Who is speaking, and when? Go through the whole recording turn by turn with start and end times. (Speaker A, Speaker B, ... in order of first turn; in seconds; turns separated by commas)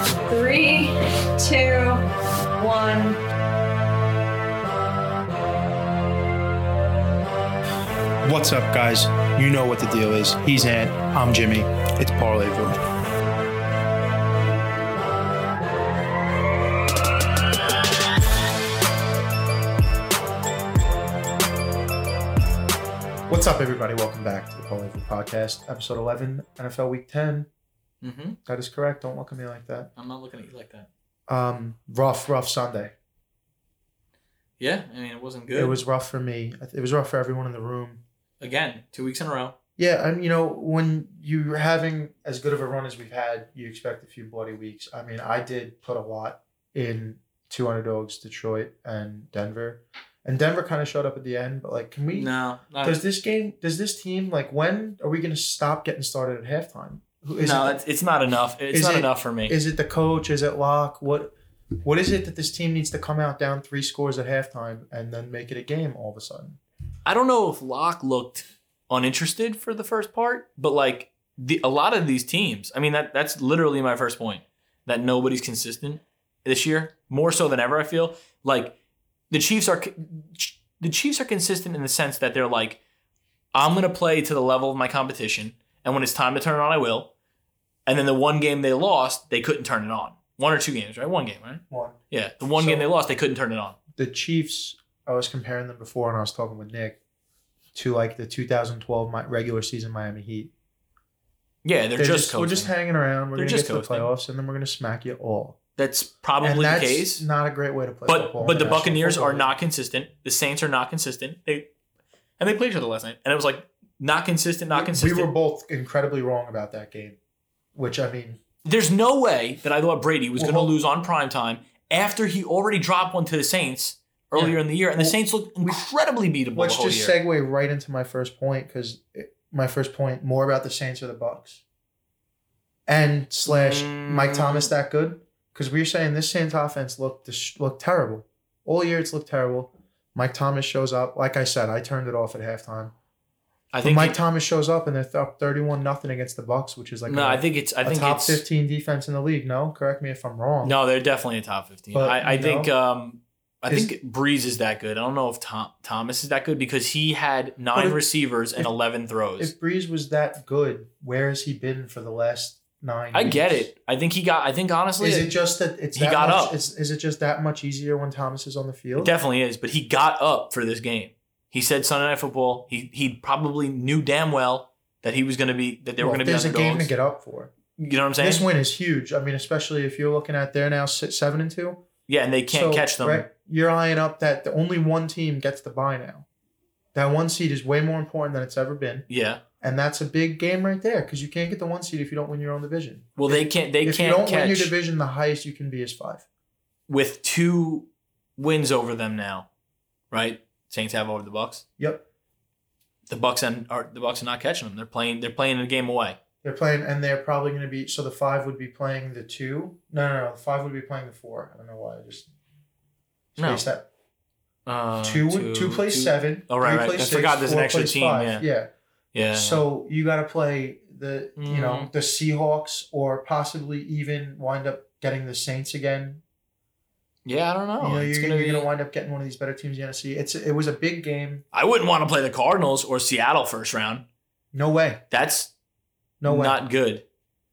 Speaker A: 0.3-2.0, Speaker A: 2.6-3.2, Speaker B: 8.2-12.8, Speaker B: 23.3-27.5, Speaker C: 28.0-28.4, Speaker B: 28.4-29.9, Speaker C: 29.9-30.9, Speaker B: 31.3-32.9, Speaker C: 34.6-35.8, Speaker B: 35.5-38.0, Speaker C: 38.4-39.5, Speaker B: 39.8-52.3, Speaker C: 52.1-53.0, Speaker B: 52.8-57.8, Speaker C: 57.4-59.5, Speaker B: 58.7-66.6, Speaker C: 67.0-78.8, Speaker C: 79.3-82.8, Speaker C: 83.5-87.1, Speaker C: 87.8-93.8, Speaker B: 91.7-92.0, Speaker B: 92.5-92.8, Speaker B: 94.0-97.0, Speaker B: 97.7-100.5, Speaker C: 101.6-102.7, Speaker B: 102.0-105.6, Speaker C: 103.3-104.1, Speaker C: 105.8-107.2, Speaker B: 106.4-109.5, Speaker C: 108.0-111.7, Speaker C: 112.4-115.3, Speaker B: 114.7-117.2, Speaker B: 117.7-118.4, Speaker C: 118.6-127.2, Speaker B: 120.4-120.7, Speaker B: 124.3-125.2, Speaker B: 126.5-131.6, Speaker B: 132.9-142.9, Speaker C: 133.4-134.7, Speaker C: 143.7-144.2, Speaker B: 143.8-150.7, Speaker C: 147.1-148.4, Speaker C: 150.6-159.5, Speaker B: 151.9-152.7, Speaker B: 157.7-158.0, Speaker B: 159.4-163.7, Speaker C: 163.1-165.3, Speaker B: 165.0-169.1, Speaker C: 165.9-166.6, Speaker C: 168.9-176.9, Speaker B: 176.0-177.5, Speaker C: 177.8-178.5, Speaker B: 178.2-181.8, Speaker C: 182.1-183.3, Speaker B: 182.5-186.2, Speaker B: 186.9-189.1, Speaker C: 189.1-189.4, Speaker B: 189.6-196.2, Speaker C: 193.2-194.7, Speaker C: 196.9-199.5, Speaker C: 200.1-201.6, Speaker B: 201.8-202.0, Speaker C: 203.1-206.2, Speaker B: 206.4-212.3, Speaker B: 213.3-213.9, Speaker C: 213.4-213.7, Speaker C: 214.7-218.4, Speaker B: 215.0-218.7, Speaker C: 219.1-219.6, Speaker B: 219.3-226.2, Speaker C: 221.4-221.9, Speaker C: 227.2-228.7, Speaker B: 227.8-231.4, Speaker C: 231.5-234.0, Speaker B: 234.5-235.0, Speaker C: 235.1-235.5, Speaker B: 236.2-236.6, Speaker C: 236.2-237.0